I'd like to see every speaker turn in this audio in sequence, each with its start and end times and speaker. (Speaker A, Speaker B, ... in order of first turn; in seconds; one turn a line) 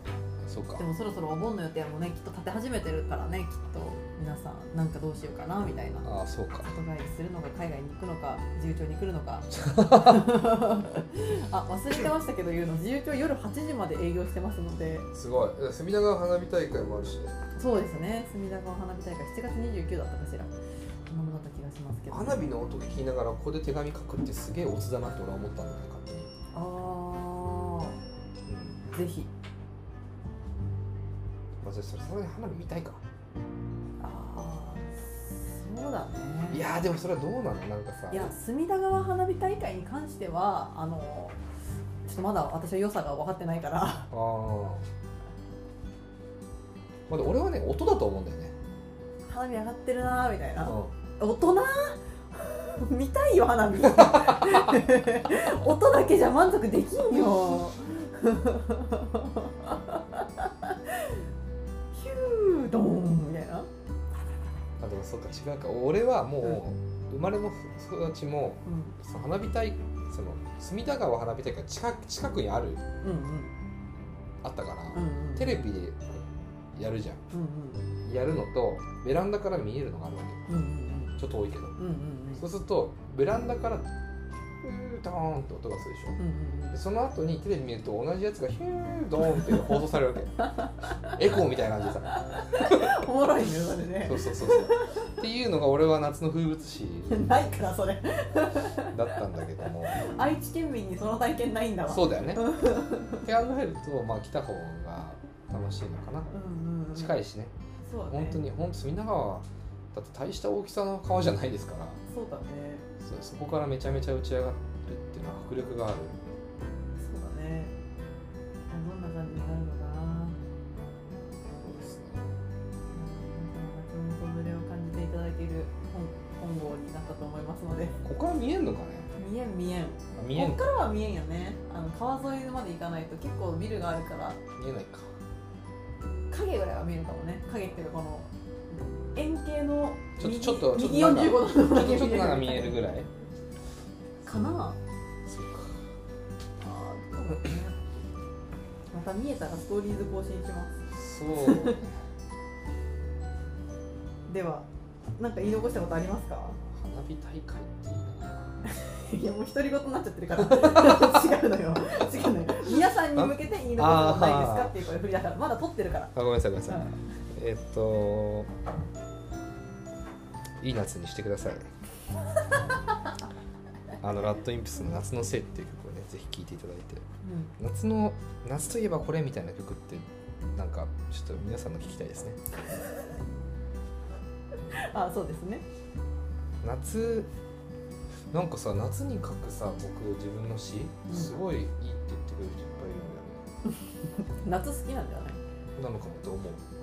Speaker A: 0.4-0.8
Speaker B: 0.8-6.1
Speaker A: 6.0-6.7
Speaker B: 6.6-15.1
Speaker A: 9.5-10.4
Speaker A: 15.1-17.3
Speaker B: 17.6-22.5
Speaker A: 22.1-26.3
Speaker B: 26.5-28.0
Speaker A: 28.4-28.8
Speaker B: 28.9-29.3
Speaker A: 31.6-33.0
Speaker B: 34.0-36.6
Speaker A: 36.5-38.3
Speaker B: 38.1-41.4
Speaker B: 42.0-44.1
Speaker A: 44.1-44.9
Speaker A: 47.1-48.5
Speaker B: 49.2-61.2
Speaker A: 50.6-50.9
Speaker A: 53.8-54.8
Speaker B: 61.9-63.7
Speaker A: 64.8-72.8
Speaker B: 68.7-68.9
Speaker B: 73.0-73.5
Speaker A: 74.4-76.2
Speaker B: 74.9-75.6
Speaker A: 76.7-77.2
Speaker B: 77.3-77.8
Speaker A: 78.0-80.5
Speaker B: 80.5-81.2
Speaker A: 81.2-81.8
Speaker B: 81.8-82.4
Speaker A: 82.4-83.9
Speaker A: 84.6-86.2
Speaker B: 86.2-86.7
Speaker A: 86.7-90.4
Speaker B: 89.4-89.7
Speaker B: 90.5-91.1
Speaker A: 91.0-93.1
Speaker B: 92.1-95.1
Speaker A: 94.0-97.5
Speaker B: 97.1-99.2
Speaker A: 98.8-100.1
Speaker B: 99.9-103.2
Speaker A: 101.9-102.5
Speaker A: 103.2-106.3
Speaker B: 106.3-107.1
Speaker A: 106.9-107.5
Speaker B: 107.8-108.4
Speaker A: 108.1-112.0
Speaker B: 112.1-112.9
Speaker A: 113.0-116.2
Speaker B: 117.0-117.7
Speaker B: 118.7-120.4
Speaker A: 121.6-122.4
Speaker B: 122.9-128.0
Speaker A: 128.0-129.1
Speaker B: 129.1-134.4
Speaker A: 130.2-130.7
Speaker A: 134.6-135.1
Speaker B: 136.3-138.3
Speaker B: 139.1-142.8
Speaker A: 140.2-143.1
Speaker B: 144.2-144.8
Speaker A: 145.2-145.9
Speaker B: 146.6-147.7
Speaker B: 148.9-150.8
Speaker A: 150.9-152.0
Speaker B: 151.4-151.8
Speaker B: 154.3-154.7
Speaker B: 155.2-156.6
Speaker A: 156.6-158.6
Speaker B: 158.6-166.1
Speaker A: 160.3-161.3
Speaker A: 163.1-164.8
Speaker A: 166.1-168.6
Speaker B: 166.7-166.9
Speaker A: 170.6-171.8
Speaker A: 172.5-172.8
Speaker A: 174.0-177.0
Speaker B: 177.2-177.5
Speaker A: 177.6-182.5
Speaker B: 184.7-185.6
Speaker A: 186.6-187.3
Speaker A: 188.3-193.4
Speaker B: 191.1-191.3
Speaker B: 193.7-195.4
Speaker A: 195.8-196.6